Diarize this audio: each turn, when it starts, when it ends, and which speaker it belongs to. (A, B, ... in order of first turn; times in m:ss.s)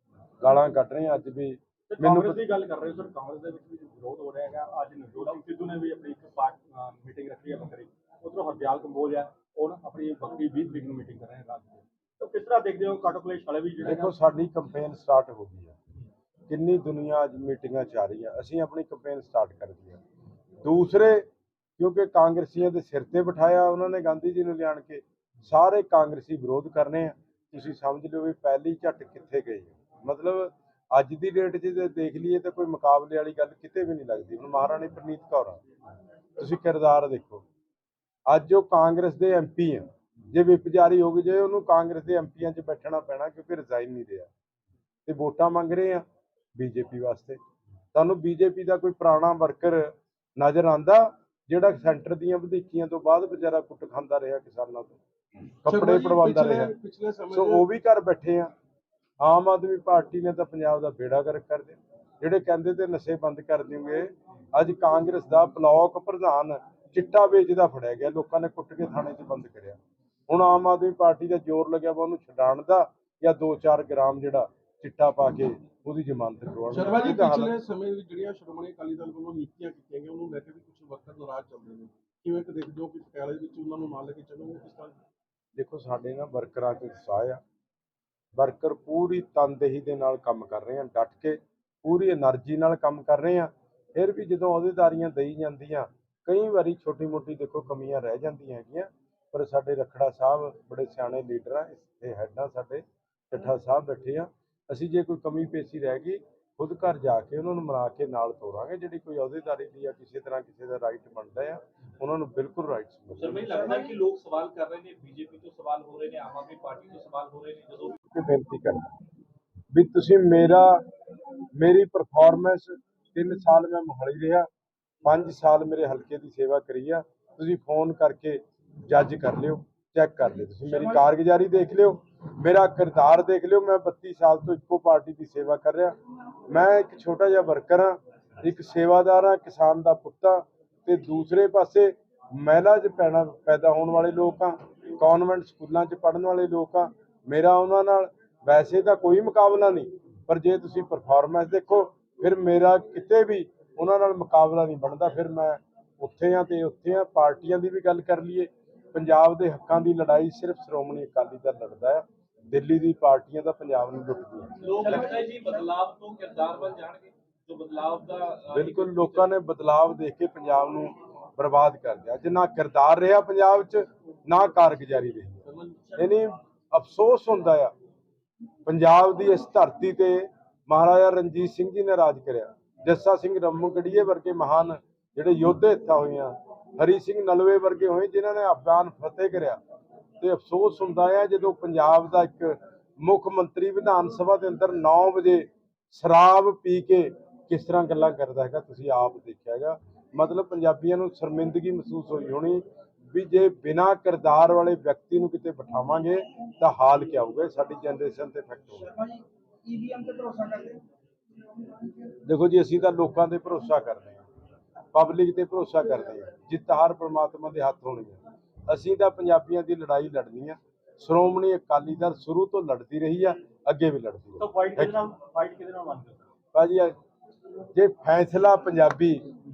0:00.4-0:02.4 A
0:01.9-0:14.1 B
0:13.8-0:15.8 A
0:16.5-0:20.0 A
0:20.6-0:21.3 A
0:21.8-0:35.6 A
0:36.4-0:37.4 A
0:38.3-0:44.3 A
0:45.1-0:46.0 A
0:46.6-0:47.4 A
0:48.0-0:55.0 A
0:55.6-0:56.7 A
0:55.7-0:57.7 C
0:57.3-0:58.5 A
0:59.2-1:09.8 A
1:10.3-1:17.6 A
1:16.7-1:25.0 C
1:25.6-1:27.4 A
1:28.4-1:53.6 A
1:53.2-1:58.0 D
1:58.1-1:58.9 A
1:59.7-2:00.8 A
2:01.6-2:04.5 A
2:05.0-2:16.0 A
2:16.5-2:44.9 A
2:44.6-2:49.3 D
2:48.5-2:55.4 A
2:55.5-2:56.0 C
2:56.0-2:57.7 A
2:58.7-3:09.6 A
3:10.2-3:28.9 A
3:29.0-3:30.8 B
3:32.2-3:34.2 A
3:34.9-3:45.0 A
3:44.4-3:46.3 B
3:46.5-3:47.0 A
3:47.8-3:49.2 A